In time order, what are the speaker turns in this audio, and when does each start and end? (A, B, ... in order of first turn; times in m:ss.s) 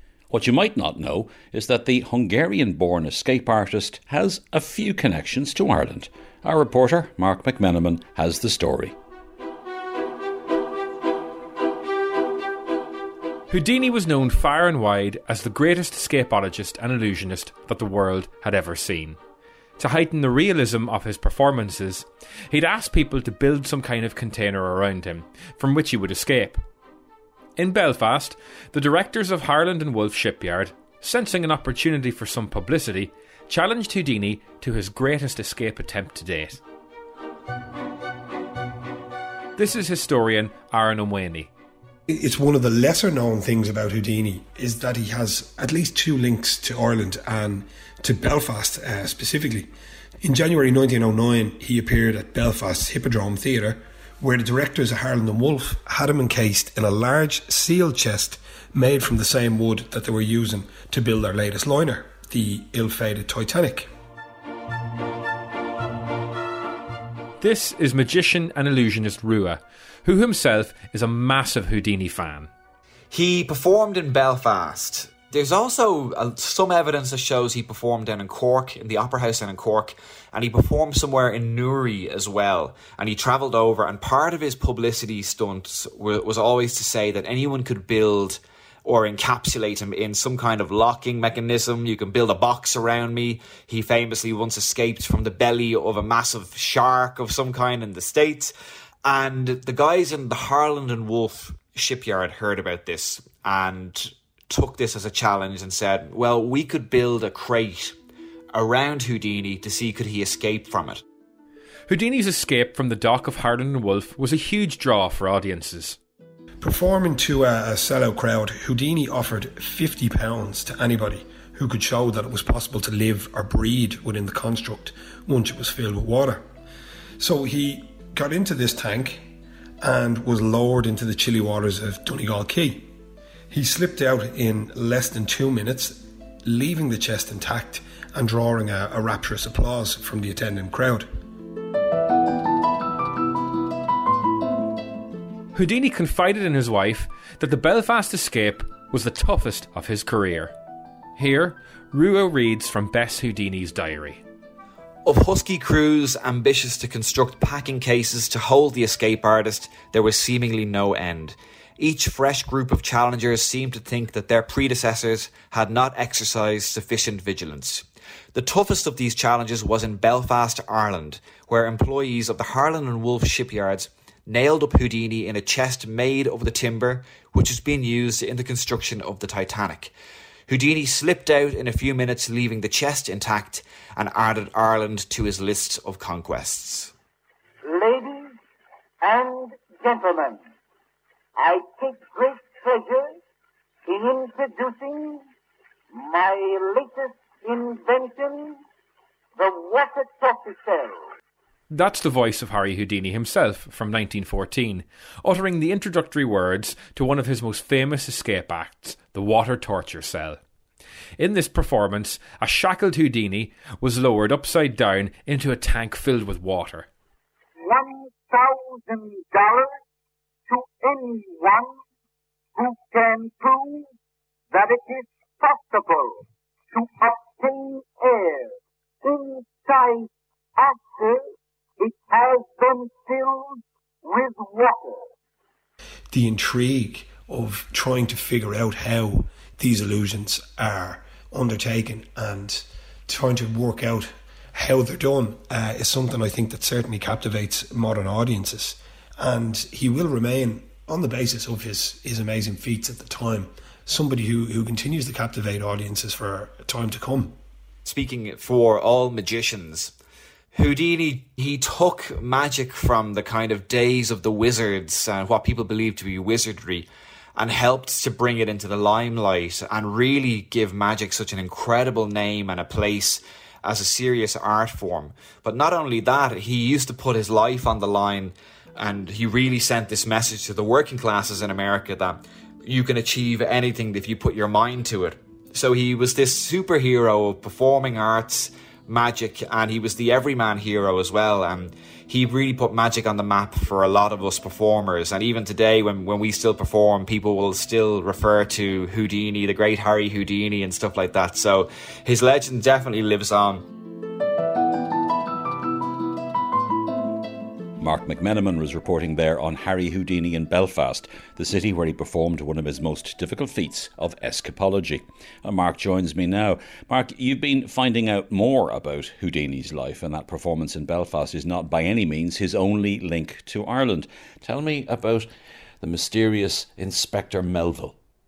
0:00.3-0:08.9 A
0:13.5-0:19.2 B
0:19.8-0:26.6 B
0:27.6-0:36.6 B
0:39.6-0:41.5 B
0:42.1-0:49.7 C
0:50.2-1:03.9 C
1:07.4-1:12.5 B
1:13.1-1:38.5 D
1:39.0-1:48.0 D
1:48.5-1:51.0 D
1:51.9-1:56.0 B
1:56.6-2:06.4 C
2:07.2-2:09.2 C
2:09.8-2:12.9 C
2:13.5-2:21.1 C
2:25.5-2:30.5 B
2:31.2-2:34.2 B
2:35.0-2:59.9 D
3:00.5-3:06.9 D
3:07.6-3:08.4 E
3:09.0-3:10.4 E
3:11.4-3:13.2 E
3:13.9-3:15.2 E
3:15.9-3:18.6 E
3:19.4-3:21.1 E
3:21.7-3:30.4 B
3:31.2-3:36.9 B
3:37.6-3:39.8 E
3:40.5-3:41.7 E
3:42.6-3:43.9 E
3:44.5-3:55.1 E
3:56.1-4:17.3 C
4:17.8-4:19.9 D
4:20.5-5:03.7 D
5:07.8-5:25.3 A
5:25.8-5:28.0 A